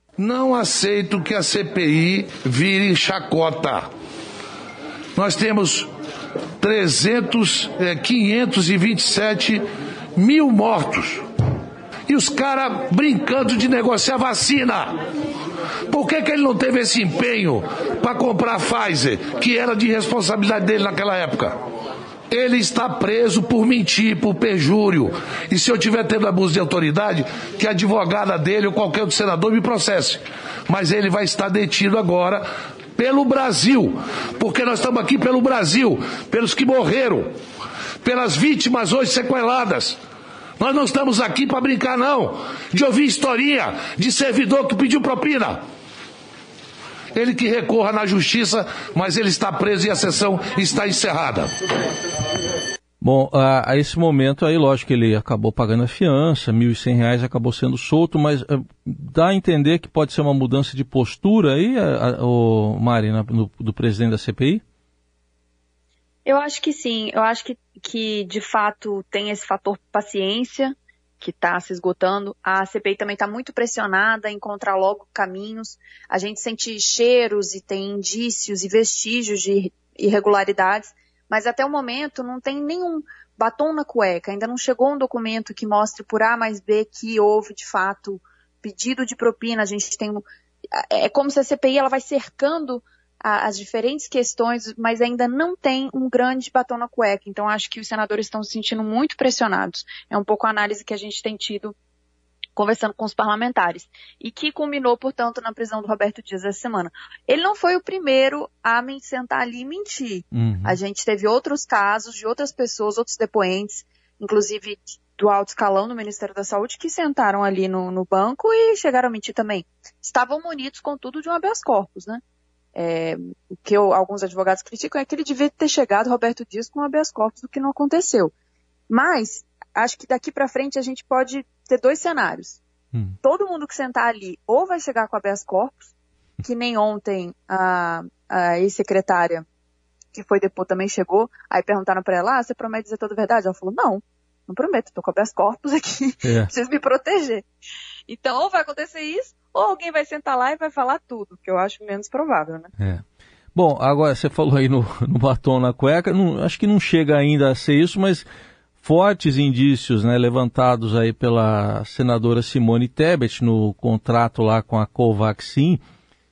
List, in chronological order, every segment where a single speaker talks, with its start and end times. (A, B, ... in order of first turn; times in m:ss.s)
0:00.2-0:03.9 A
0:05.1-0:05.9 A
0:06.6-0:11.2 A
0:12.1-0:15.0 A
0:15.9-0:21.6 A
0:22.3-0:37.3 A
0:38.0-0:40.0 A
0:40.6-0:45.6 A
0:47.1-0:51.5 A
0:53.0-1:04.6 B
1:06.2-1:41.7 C
1:42.6-2:02.2 C
1:50.3-1:50.8 B
2:02.7-2:08.3 C
2:08.9-2:12.6 C
2:13.2-2:15.8 C
2:16.4-2:19.4 C
2:20.1-2:27.4 C
2:26.2-2:26.5 B
2:28.1-2:32.7 C
2:33.5-2:38.2 B
2:38.8-2:45.8 B